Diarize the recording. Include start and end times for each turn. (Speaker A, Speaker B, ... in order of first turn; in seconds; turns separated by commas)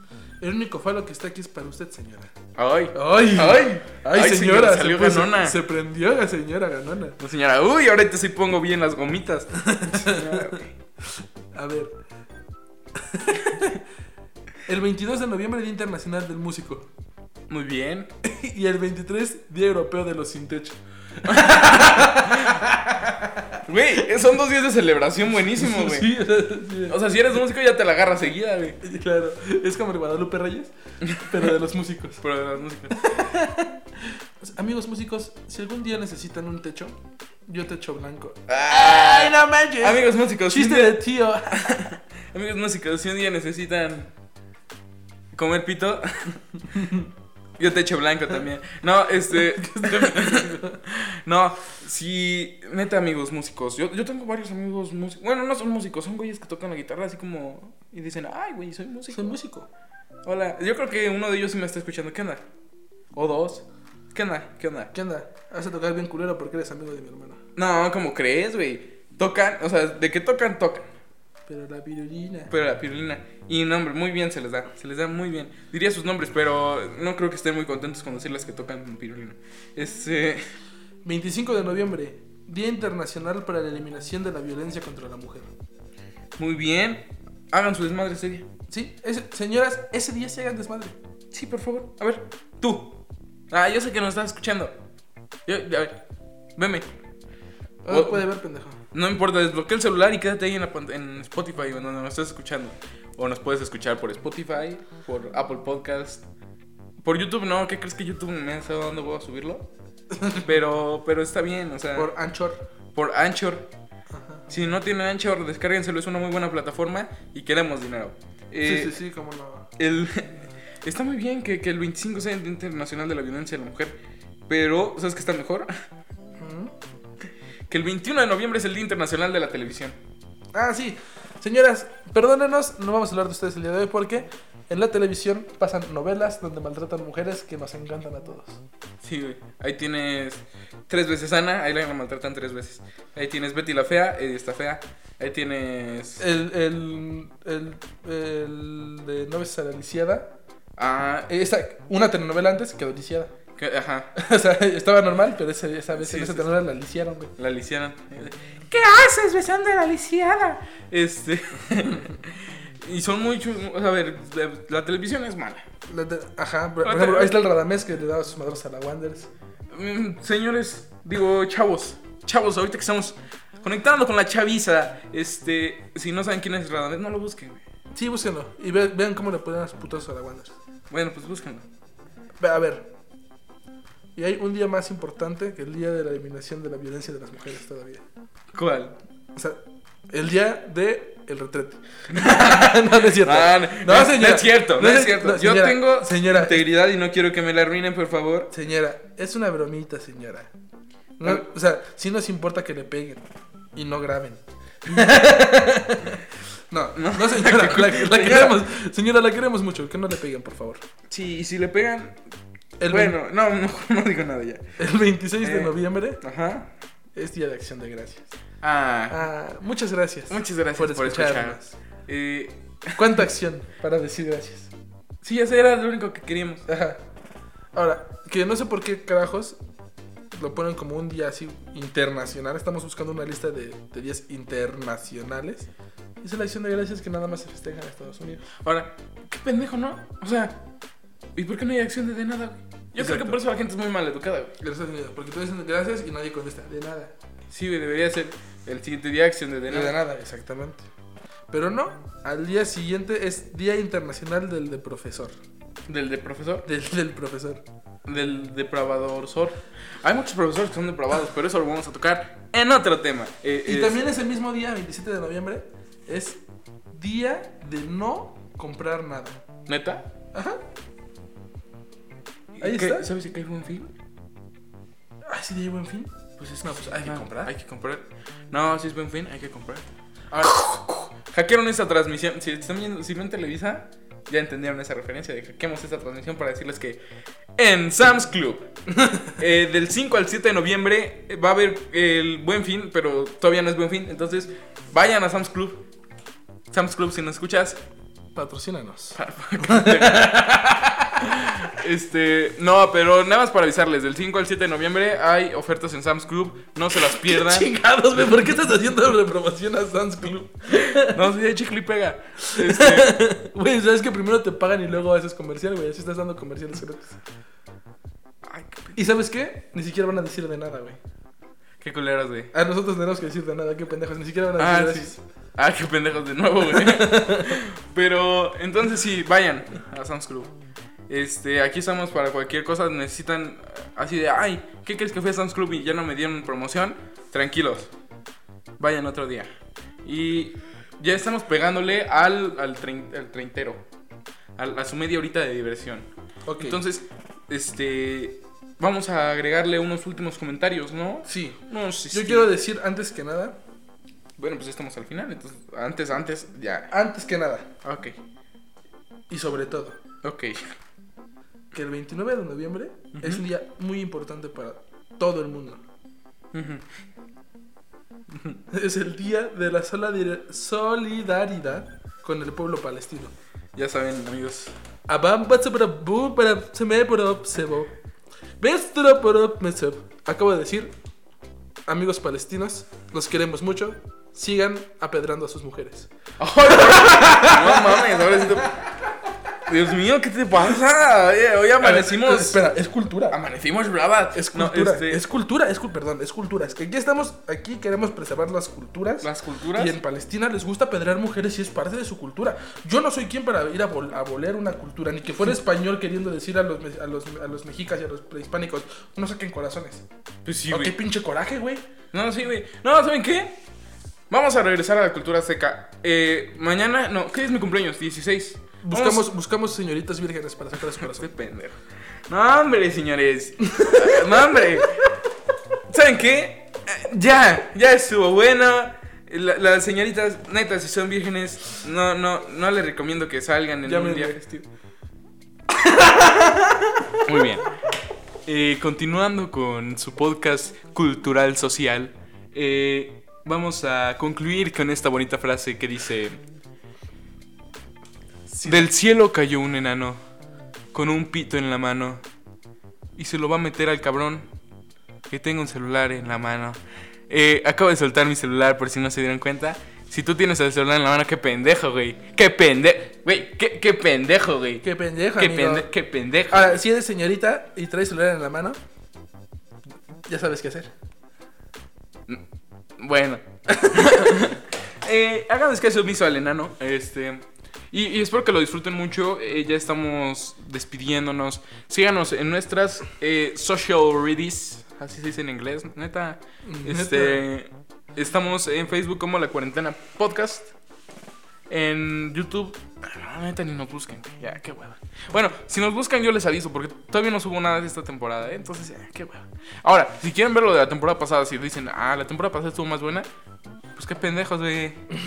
Speaker A: 0.4-2.3, Speaker B: 2.6-5.6, Speaker A: 2.9-7.2, Speaker B: 7.2-10.7, Speaker A: 9.6-11.9, Speaker A: 12.9-13.8, Speaker A: 14.7-16.9, Speaker B: 17.5-18.1, Speaker A: 18.2-24.0, Speaker B: 21.2-22.6, Speaker B: 23.6-26.2, Speaker A: 25.4-27.0, Speaker B: 26.9-28.8, Speaker A: 28.8-32.2, Speaker B: 32.2-33.4, Speaker A: 33.0-41.9, Speaker B: 38.5-44.1, Speaker B: 45.3-46.4, Speaker A: 46.8-47.1, Speaker B: 47.6-59.3, Speaker A: 49.3-50.8, Speaker A: 59.1-59.7, Speaker B: 60.2-62.4, Speaker B: 63.1-64.9, Speaker A: 64.9-67.4, Speaker B: 67.5-70.9, Speaker A: 71.5-72.5, Speaker B: 72.5-80.5, Speaker A: 81.0-85.5, Speaker B: 86.4-88.5, Speaker A: 88.7-91.0, Speaker B: 91.3-93.0, Speaker B: 93.5-94.8, Speaker B: 95.5-96.0, Speaker B: 96.5-96.9, Speaker A: 97.8-98.8, Speaker B: 97.9-98.2, Speaker B: 98.9-106.2, Speaker B: 107.0-109.7, Speaker A: 110.1-110.5, Speaker B: 110.2-112.1, Speaker A: 111.9-112.6, Speaker B: 112.9-113.7, Speaker A: 114.1-114.5, Speaker B: 114.5-119.0, Speaker A: 118.6-119.7, Speaker B: 119.8-124.0, Speaker B: 124.5-125.7, Speaker A: 126.4-126.8, Speaker B: 127.7-130.0, Speaker A: 130.5-138.6, Speaker B: 139.0-146.2, Speaker A: 146.2-150.3, Speaker B: 150.8-151.3, Speaker A: 151.3-153.3, Speaker B: 153.6-154.1, Speaker A: 154.1-157.3, Speaker B: 155.9-156.5, Speaker B: 157.4-165.6, Speaker A: 165.9-169.3, Speaker B: 166.8-167.4, Speaker B: 169.7-177.6, Speaker A: 177.9-180.5, Speaker B: 180.9-181.6, Speaker A: 182.4-182.9, Speaker A: 184.1-188.0, Speaker B: 188.5-188.9, Speaker A: 189.3-196.6, Speaker B: 192.1-198.5, Speaker A: 198.5-200.5, Speaker A: 201.2-210.8, Speaker B: 206.9-208.6, Speaker B: 211.1-212.2, Speaker A: 212.8-213.2, Speaker B: 212.9-214.7, Speaker A: 214.8-216.2, Speaker B: 215.4-216.7, Speaker A: 217.1-218.3, Speaker B: 218.6-219.2, Speaker A: 219.1-221.7, Speaker B: 220.3-223.1, Speaker A: 223.0-224.7, Speaker B: 225.2-226.7, Speaker A: 226.7-227.0, Speaker A: 227.7-229.6, Speaker A: 230.3-235.7, Speaker A: 236.2-238.4, Speaker B: 238.6-240.6, Speaker B: 241.3-244.5, Speaker A: 243.0-243.4, Speaker A: 244.6-247.1, Speaker B: 247.5-249.9, Speaker A: 249.7-250.9, Speaker A: 251.5-255.3, Speaker B: 255.9-256.7, Speaker A: 256.6-257.6, Speaker B: 258.1-264.1, Speaker A: 263.6-269.4, Speaker B: 269.7-270.1, Speaker A: 270.3-270.6, Speaker B: 272.5-273.9, Speaker A: 272.6-273.1, Speaker A: 275.3-276.1, Speaker B: 276.4-287.0, Speaker A: 276.6-277.5, Speaker A: 280.3-280.6, Speaker B: 287.6-288.7, Speaker A: 289.0-289.3, Speaker B: 289.4-295.8, Speaker B: 296.7-297.8, Speaker A: 298.3-301.2, Speaker B: 299.1-300.6, Speaker B: 301.1-307.7, Speaker A: 307.0-311.3, Speaker B: 310.7-313.2, Speaker A: 312.5-317.2, Speaker B: 318.4-319.0, Speaker A: 318.9-321.0, Speaker B: 321.8-322.5, Speaker A: 322.5-325.2, Speaker B: 324.6-330.5, Speaker A: 326.6-327.6, Speaker B: 331.1-337.9, Speaker B: 338.8-339.5, Speaker B: 340.0-343.8, Speaker B: 344.6-346.1, Speaker A: 346.5-346.8, Speaker B: 346.6-352.5, Speaker A: 351.2-353.6, Speaker B: 354.4-356.9, Speaker A: 356.9-357.7, Speaker B: 357.8-358.2, Speaker A: 359.3-360.0, Speaker B: 360.2-360.8, Speaker A: 361.7-365.8, Speaker B: 363.1-363.4, Speaker B: 366.5-366.9, Speaker B: 368.3-368.6, Speaker A: 368.7-373.3, Speaker B: 373.8-374.7, Speaker A: 375.1-377.9, Speaker A: 378.6-380.9, Speaker A: 381.9-386.1, Speaker B: 386.4-388.9, Speaker A: 386.6-388.7, Speaker B: 389.6-392.6, Speaker A: 391.8-393.4, Speaker B: 393.3-395.2, Speaker A: 394.3-410.0, Speaker B: 399.2-399.9, Speaker B: 410.4-410.9, Speaker A: 410.7-411.8, Speaker B: 412.1-413.6, Speaker B: 414.3-419.3, Speaker A: 418.8-421.3, Speaker B: 420.9-425.1, Speaker A: 423.7-424.8, Speaker B: 425.9-434.4, Speaker A: 433.8-434.7, Speaker A: 435.7-437.4, Speaker B: 437.2-437.8, Speaker B: 438.4-446.4, Speaker A: 448.5-448.9, Speaker B: 448.6-450.2, Speaker B: 450.9-452.2, Speaker B: 453.1-454.5, Speaker B: 455.3-466.8, Speaker A: 464.8-465.9, Speaker A: 466.5-468.8, Speaker A: 470.2-470.9, Speaker B: 473.0-490.7, Speaker A: 473.8-474.4, Speaker A: 486.6-487.4, Speaker B: 491.7-503.3, Speaker B: 503.9-505.1